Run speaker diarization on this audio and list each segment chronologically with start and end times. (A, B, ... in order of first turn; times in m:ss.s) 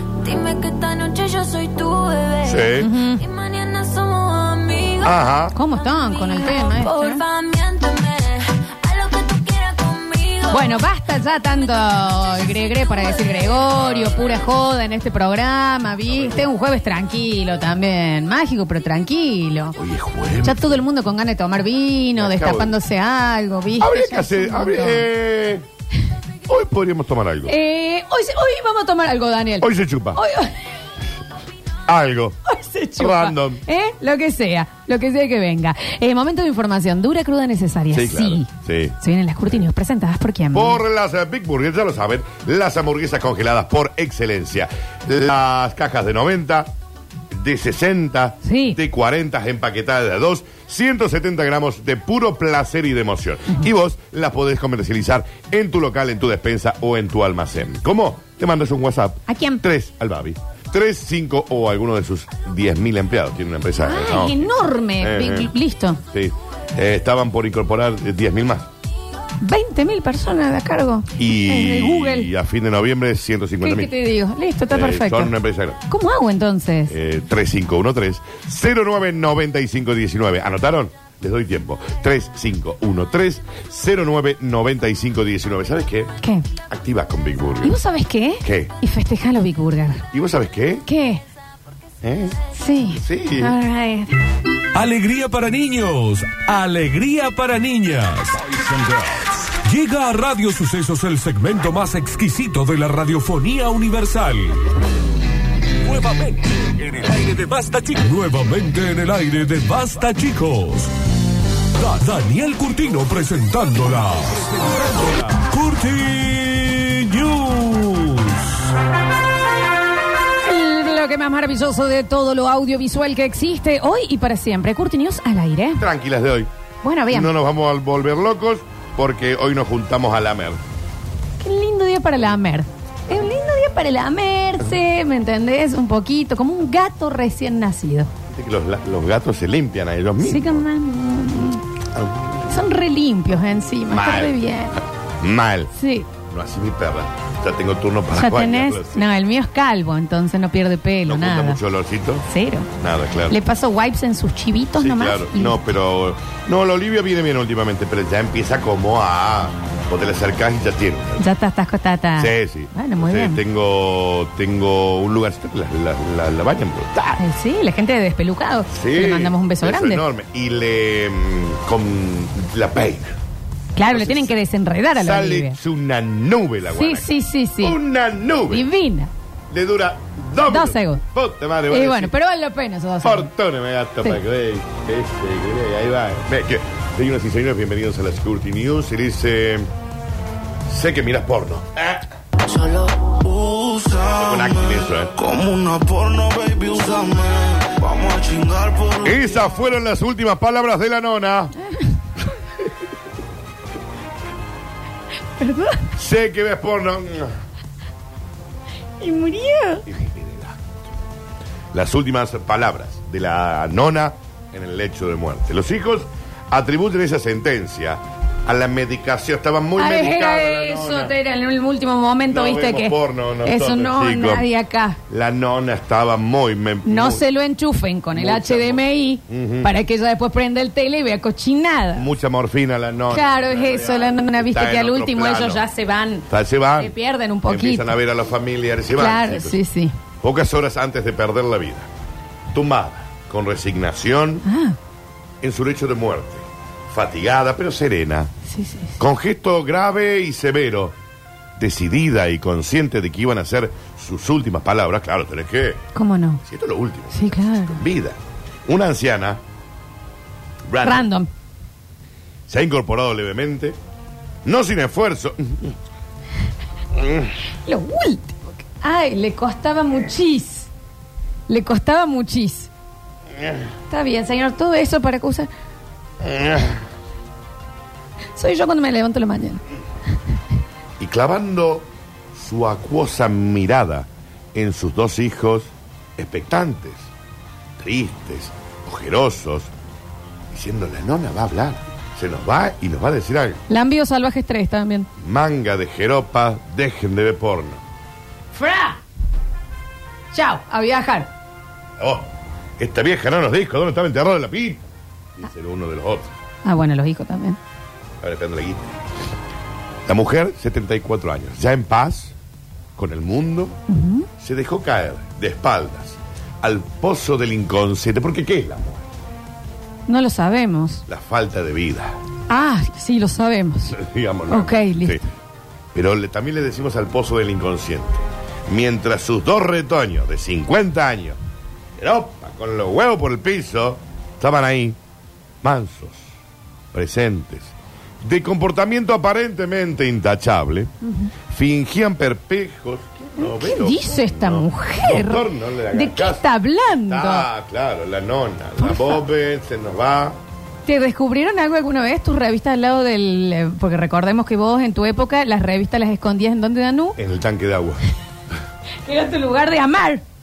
0:00.2-0:10.9 A
0:02.4-0:02.9 B
0:02.8-0:03.2 C
0:05.0-0:05.5 B
0:05.5-0:07.2 C
0:10.5-0:19.8 C
0:13.7-0:14.4 B
0:19.8-0:20.8 B
0:20.4-0:25.0 C
0:22.2-0:22.8 B
0:23.8-0:25.6 B
0:26.4-0:27.6 B
0:27.4-0:30.5 C
0:29.6-0:30.2 B
0:31.8-0:32.4 B
0:32.5-0:38.5 C
0:33.0-0:33.6 B
0:37.9-0:39.0 B
0:39.0-0:40.8 C
0:40.5-0:46.7 B
0:47.3-1:05.5 B
0:48.4-0:48.8 C
0:59.3-0:59.6 C
1:03.8-1:06.0 C
1:06.1-1:08.7 B
1:09.4-1:12.3 C
1:11.2-1:13.9 B
1:13.6-1:15.3 C
1:14.7-1:15.8 B
1:15.9-1:16.9 C
1:16.9-1:26.1 B
1:26.2-1:26.5 C
1:26.7-1:27.8 B
1:27.6-1:30.0 C
1:28.4-1:28.7 B
1:30.1-1:30.8 B
1:30.8-1:31.2 C
1:32.0-1:32.4 B
1:32.5-1:34.2 C
1:32.9-1:33.6 B
1:34.7-1:44.6 D
1:45.8-1:50.9 D
1:51.7-1:58.7 D
2:00.4-2:05.8 C
2:05.8-2:06.5 B
2:06.8-2:07.3 C
2:07.1-2:10.6 B
2:11.4-2:18.1 C
2:18.3-2:20.6 B
2:20.2-2:21.6 C
2:21.9-2:22.6 B
2:22.5-2:24.8 C
2:23.8-2:29.1 B
2:25.7-2:26.1 C
2:28.1-2:31.6 C
2:31.0-2:33.4 B
2:32.3-2:32.7 C
2:33.3-2:35.6 C
2:34.8-2:41.2 B
2:41.2-2:43.4 C
2:42.2-2:47.2 B
2:47.2-2:50.0 C
2:48.7-2:53.2 B
2:53.7-2:55.6 C
2:53.9-2:54.4 B
2:54.9-2:57.1 B
2:56.7-2:57.8 C
2:57.6-2:58.7 B
2:58.5-2:59.1 C
2:59.5-3:02.1 B
3:00.4-3:01.0 C
3:01.7-3:03.3 C
3:03.0-3:09.7 B
3:10.6-3:12.1 B
3:12.5-3:19.6 E
3:14.2-3:15.1 B
3:19.0-3:21.5 B
3:21.6-3:22.0 C
3:25.4-3:25.9 C
3:26.0-3:27.4 B
3:29.0-3:29.8 C
3:29.8-3:30.8 B
3:31.7-3:41.1 B
3:39.8-3:45.0 C
3:42.3-3:44.5 B
3:45.1-3:47.2 B
3:46.8-3:52.1 C
3:48.1-3:49.7 B
3:51.9-3:55.6 B
3:53.1-3:56.3 C
3:56.3-3:56.9 B
3:56.8-3:57.9 C
3:57.4-3:59.6 B
3:58.9-3:59.9 C
4:00.2-4:01.9 B
4:02.5-4:04.4 B
4:04.4-4:04.8 C
4:05.4-4:08.3 B
4:08.5-4:09.0 C
4:09.0-4:11.0 B
4:11.6-4:15.8 B
4:15.9-4:16.4 C
4:16.4-4:19.4 B
4:17.1-4:17.8 C
4:20.7-4:21.1 B
4:20.8-4:21.3 C
4:22.5-4:23.8 B
4:24.4-4:25.8 B
4:26.9-4:27.3 B
4:27.6-4:30.7 C
4:31.5-4:32.7 C
4:33.3-4:33.6 B
4:33.9-4:35.5 C
4:36.2-4:36.8 B
4:38.4-4:39.6 C
4:41.0-4:47.0 B
4:47.8-4:49.7 B
4:50.5-4:53.6 B
4:53.7-4:55.1 C
4:55.2-4:57.8 B
4:58.5-4:59.0 C
5:00.3-5:01.3 C
5:02.0-5:04.8 B
5:05.4-5:06.3 B
5:06.6-5:07.6 C
5:08.2-5:08.9 B
5:10.0-5:12.3 B
5:13.0-5:13.8 B
5:13.9-5:14.3 C
5:14.4-5:19.1 B
5:20.1-5:21.0 C
5:21.1-5:22.2 B
5:22.5-5:24.0 C
5:23.9-5:25.3 B
5:24.5-5:25.2 C
5:25.9-5:31.4 B
5:32.0-5:35.0 B
5:35.6-5:36.3 B
5:36.9-5:40.9 B
5:41.0-5:41.3 C
5:41.5-5:50.4 B
5:43.4-5:47.5 C
5:48.8-5:49.2 C
5:50.8-5:57.2 C
5:57.2-5:58.0 B
5:59.0-6:00.2 C